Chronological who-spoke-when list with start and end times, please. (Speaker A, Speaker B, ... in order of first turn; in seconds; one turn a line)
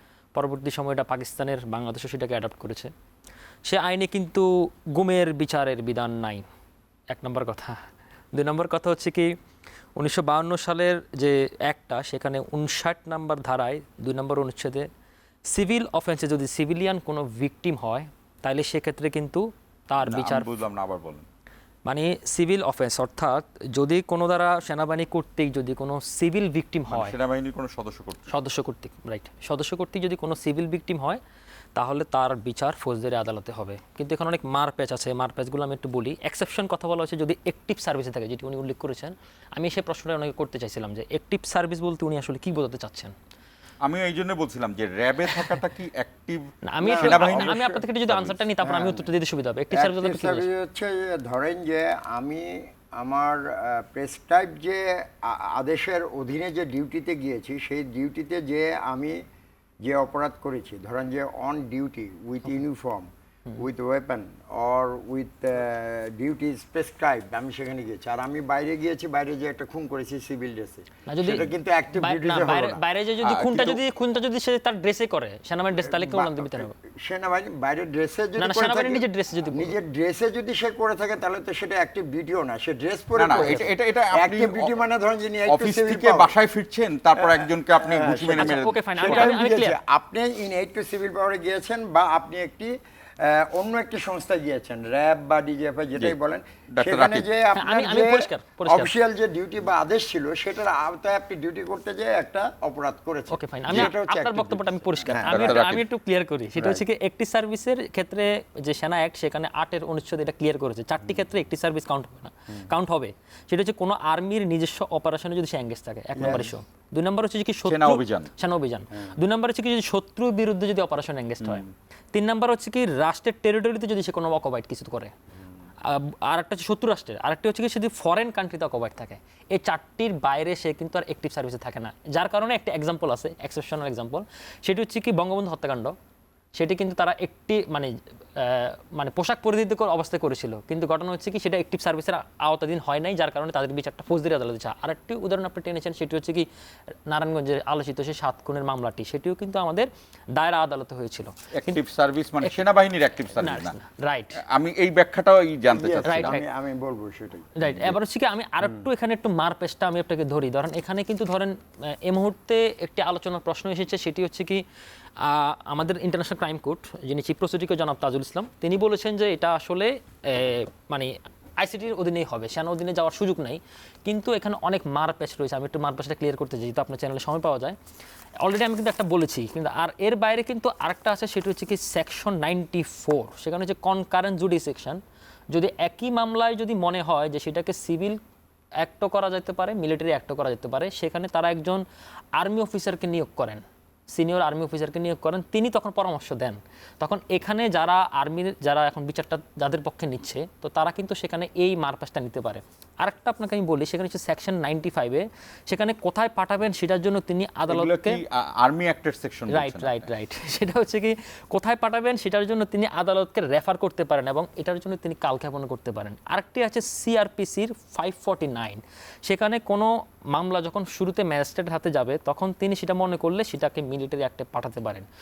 Speaker A: 0.3-2.9
Speaker A: 3.6-6.4
Speaker A: 7.1-7.8
Speaker A: 8.3-9.3
Speaker A: 9.9-14.9
Speaker A: 15.5-20.5
Speaker B: 20.0-21.2
Speaker A: 21.9-27.1
Speaker B: 26.9-28.3
Speaker A: 28.3-31.2
Speaker A: 31.7-43.1
Speaker B: 43.8-48.4
Speaker A: 46.6-50.5
Speaker C: 46.8-47.6
Speaker C: 48.6-49.1
Speaker C: 49.7-59.2
Speaker C: 59.8-72.8
Speaker A: 71.0-76.7
Speaker B: 73.2-73.8
Speaker C: 75.7-86.3
Speaker A: 78.4-79.7
Speaker B: 83.2-84.8
Speaker A: 83.3-83.7
Speaker B: 85.5-89.4
Speaker C: 87.2-105.6
Speaker A: 88.4-89.8
Speaker B: 96.8-97.3
Speaker A: 97.5-98.9
Speaker A: 103.3-125.1
Speaker B: 105.1-105.8
Speaker C: 106.6-106.8
Speaker C: 116.1-116.5
Speaker B: 117.6-118.3
Speaker C: 118.9-119.2
Speaker A: 125.8-135.9
Speaker A: 136.5-146.5
Speaker A: 147.1-151.8
Speaker B: 151.5-153.8
Speaker A: 153.3-154.4
Speaker B: 154.4-156.4
Speaker C: 155.7-157.6
Speaker A: 156.0-156.4
Speaker A: 157.6-164.6
Speaker B: 157.7-157.9
Speaker A: 165.2-177.8
Speaker A: 178.4-185.0
Speaker A: 185.5-188.2
Speaker A: 188.8-191.8
Speaker A: 192.3-208.2
Speaker B: 207.7-210.1
Speaker A: 209.5-225.1